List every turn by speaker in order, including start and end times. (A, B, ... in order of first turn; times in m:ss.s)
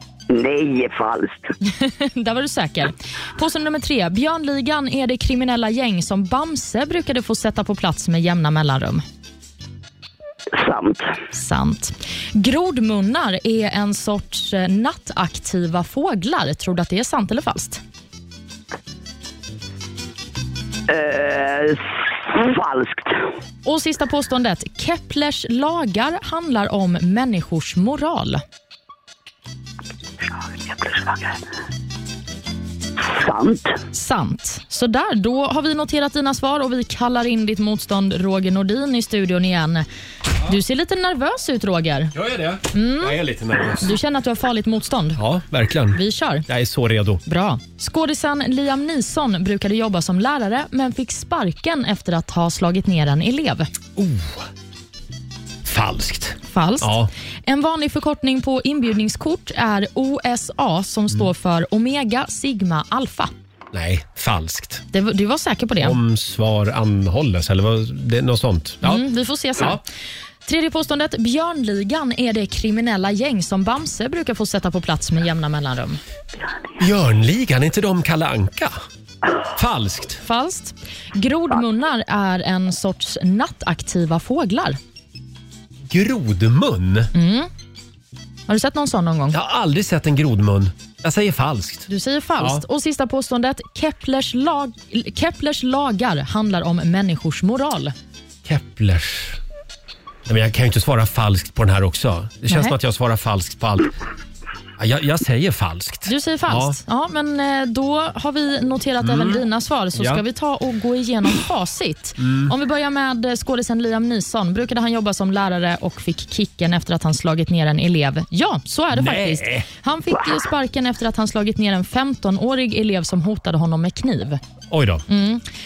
0:00.3-0:01.5 A
0:01.6-0:09.0 B
0:10.6-0:11.1 A
0:11.3-0:17.8 B
0:20.9-0:23.2 A
0:23.6-0:28.4 B
0:30.3-0:31.4 A
0:33.0-0:33.7 A
0:33.9-0:39.9 B
0:40.4-0:42.1 B
0:42.1-0:44.0 C
0:42.7-0:43.2 B
0:43.8-0:45.2 B
0:45.2-0:47.2 C
0:45.9-0:46.4 B
0:47.3-0:53.7 B
0:54.0-0:54.4 C
0:55.6-0:57.1 C
0:56.5-0:56.9 B
0:57.4-1:03.3 B
1:03.7-1:04.8 C
1:04.9-1:06.0 B
1:05.8-1:09.0 C
1:08.8-1:09.8 B
1:10.4-1:16.0 B
1:16.8-1:18.8 C
1:19.6-1:20.2 C
1:20.2-1:24.8 B
1:25.9-1:27.1 C
1:27.1-1:27.5 B
1:28.5-1:29.4 B
1:29.3-1:31.9 C
1:31.9-1:37.9 B
1:38.4-1:39.4 C
1:40.3-1:43.9 C
1:42.5-1:42.7 B
1:44.8-1:46.8 C
1:46.0-2:04.4 B
1:49.0-1:49.4 C
1:50.0-1:50.2 C
1:52.2-1:52.5 C
1:58.9-1:59.7 C
2:04.7-2:05.0 C
2:05.1-2:05.4 B